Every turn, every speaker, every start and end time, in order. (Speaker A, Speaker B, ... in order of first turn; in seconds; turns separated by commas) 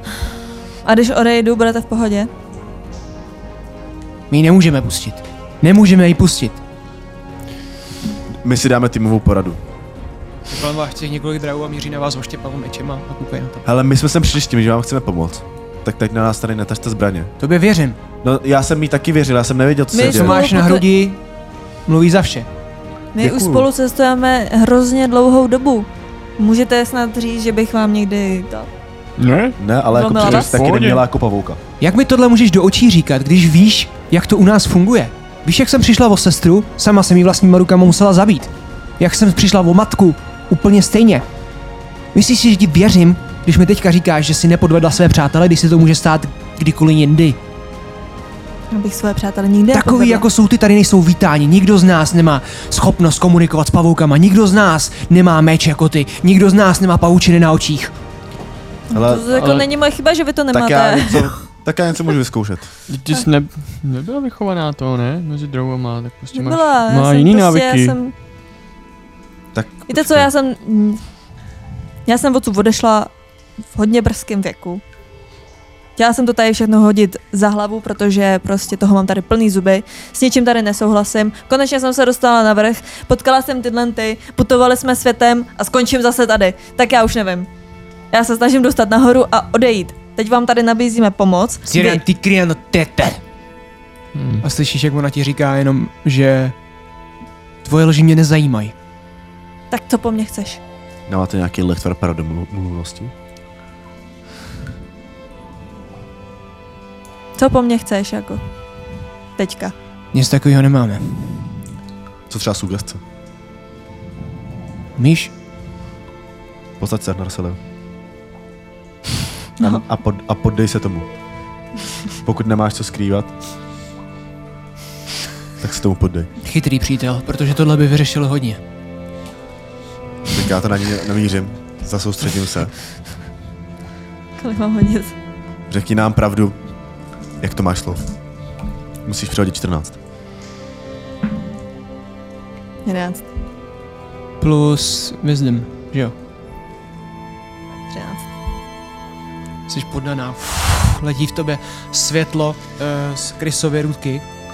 Speaker A: 0.8-2.3, Speaker B: 4.3-6.6, Speaker C: 8.4-9.6, Speaker B: 10.5-13.7, Speaker C: 13.7-17.3, Speaker B: 17.4-18.0, Speaker C: 18.2-20.4, Speaker A: 19.9-20.9, Speaker B: 20.0-21.2, Speaker B: 21.9-22.5, Speaker A: 23.1-28.7, Speaker C: 23.2-23.7, Speaker D: 29.2-29.6, Speaker C: 29.6-31.6, Speaker A: 29.9-30.5, Speaker D: 30.2-31.0, Speaker B: 31.8-41.2, Speaker B: 42.1-47.4, Speaker A: 48.7-50.3, Speaker B: 49.7-57.9, Speaker C: 58.9-59.4, Speaker A: 58.9-61.4, Speaker D: 59.3-59.7, Speaker C: 60.5-62.7, Speaker D: 62.9-68.0, Speaker A: 66.3-68.1, Speaker C: 69.5-70.3, Speaker A: 69.9-71.0, Speaker A: 72.1-73.1, Speaker A: 73.7-74.8, Speaker A: 76.0-87.5, Speaker A: 88.1-92.0, Speaker B: 91.7-93.2, Speaker D: 94.1-94.4, Speaker B: 94.4-96.5, Speaker B: 97.6-98.8, Speaker A: 99.7-100.6, Speaker C: 101.1-103.1, Speaker A: 107.4-108.5, Speaker A: 109.4-109.8, Speaker B: 110.1-111.5, Speaker C: 112.3-113.0, Speaker B: 115.0-115.3, Speaker C: 116.8-117.6, Speaker C: 119.6-121.1, Speaker C: 122.2-123.3, Speaker C: 125.6-126.3, Speaker B: 126.4-128.6, Speaker C: 130.3-132.7, Speaker A: 134.4-135.2, Speaker C: 135.7-136.6, Speaker C: 137.4-138.0, Speaker C: 139.1-140.0, Speaker A: 142.8-143.3, Speaker B: 144.4-146.1, Speaker A: 147.9-148.2, Speaker B: 149.7-154.2